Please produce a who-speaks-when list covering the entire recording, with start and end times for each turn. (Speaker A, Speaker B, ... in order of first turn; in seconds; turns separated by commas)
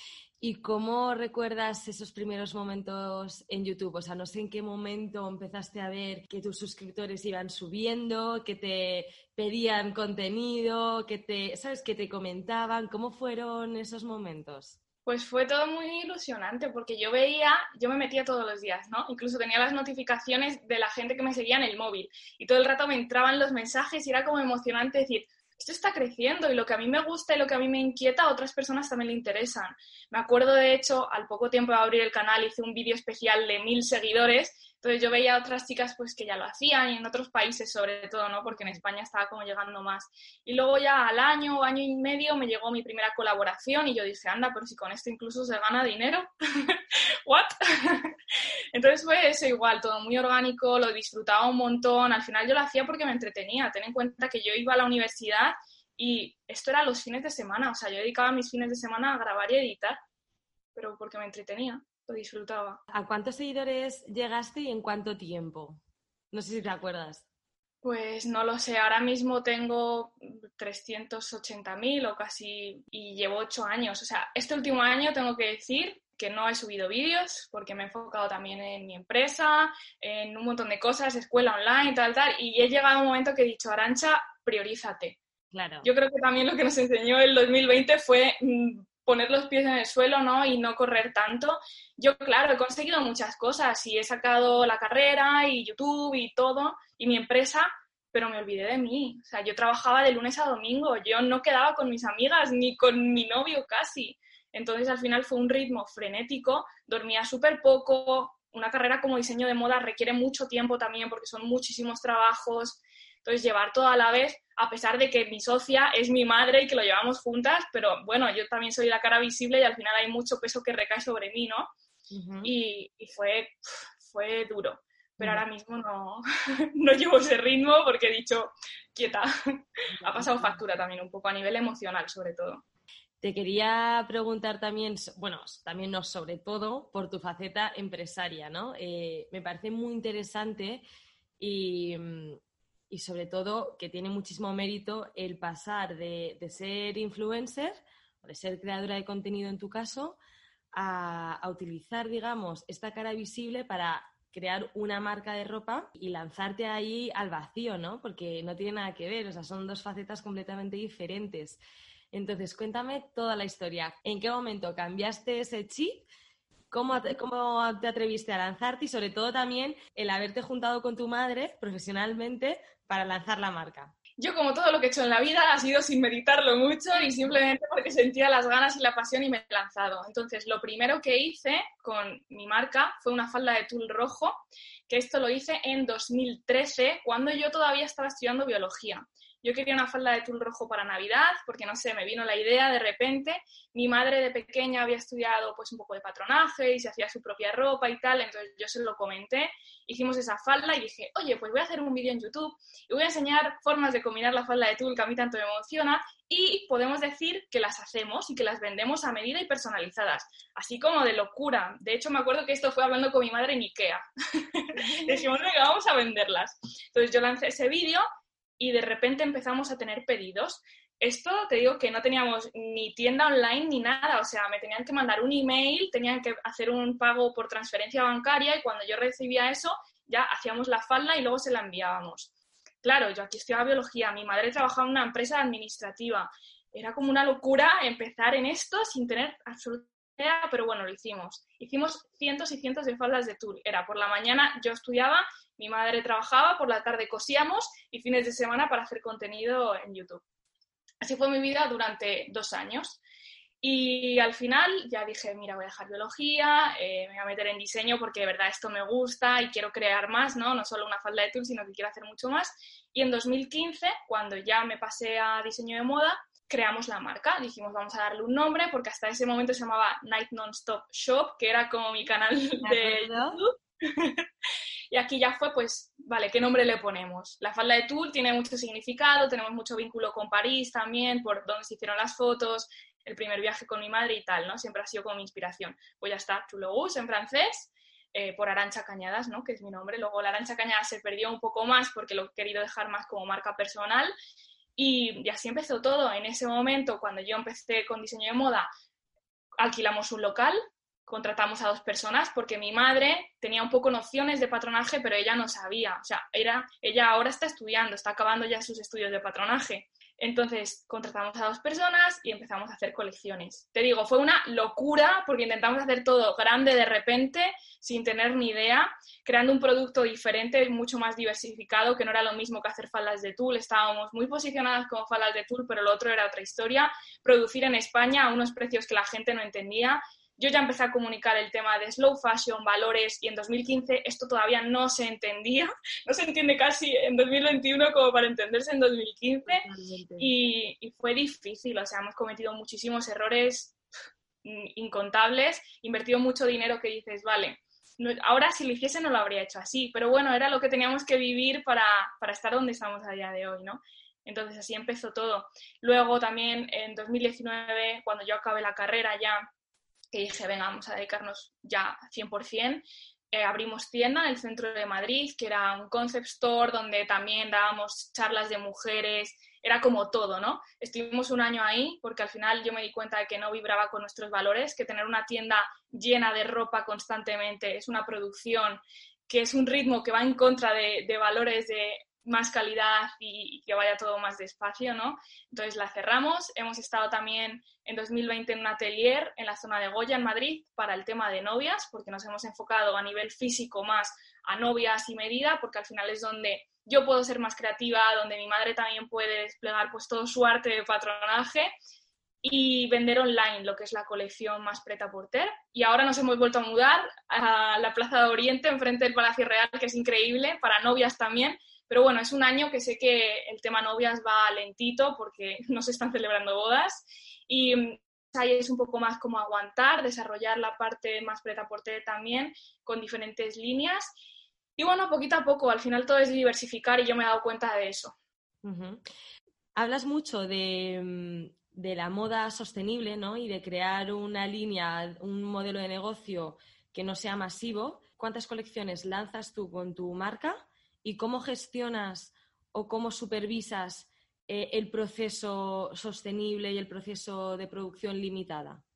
Speaker A: 0.4-14.8, Speaker B: 15.1-48.1, Speaker A: 38.5-38.8, Speaker B: 48.7-60.0, Speaker B: 60.7-62.8, Speaker A: 62.9-65.8, Speaker A: 66.3-67.2, Speaker B: 67.8-85.2, Speaker A: 85.5-85.9, Speaker B: 85.8-121.7, Speaker A: 122.1-122.5, Speaker B: 122.4-132.6, Speaker A: 125.2-125.4, Speaker A: 129.9-130.6, Speaker A: 133.2-140.8, Speaker A: 141.4-142.4, Speaker A: 142.9-150.2, Speaker A: 150.7-161.6, Speaker A: 162.1-166.1, Speaker A: 166.7-173.9, Speaker B: 174.2-184.4, Speaker B: 184.9-218.0, Speaker A: 214.8-215.3, Speaker B: 218.6-232.3, Speaker B: 232.8-250.2, Speaker B: 251.0-253.0, Speaker B: 253.6-274.2, Speaker A: 272.6-273.4, Speaker B: 274.9-294.1, Speaker B: 294.8-298.7, Speaker B: 299.6-339.6, Speaker A: 339.5-340.3, Speaker B: 340.2-343.8, Speaker B: 344.4-359.4, Speaker B: 360.1-401.7, Speaker B: 402.4-424.1, Speaker B: 424.8-428.1, Speaker A: 428.6-429.0, Speaker A: 429.7-448.8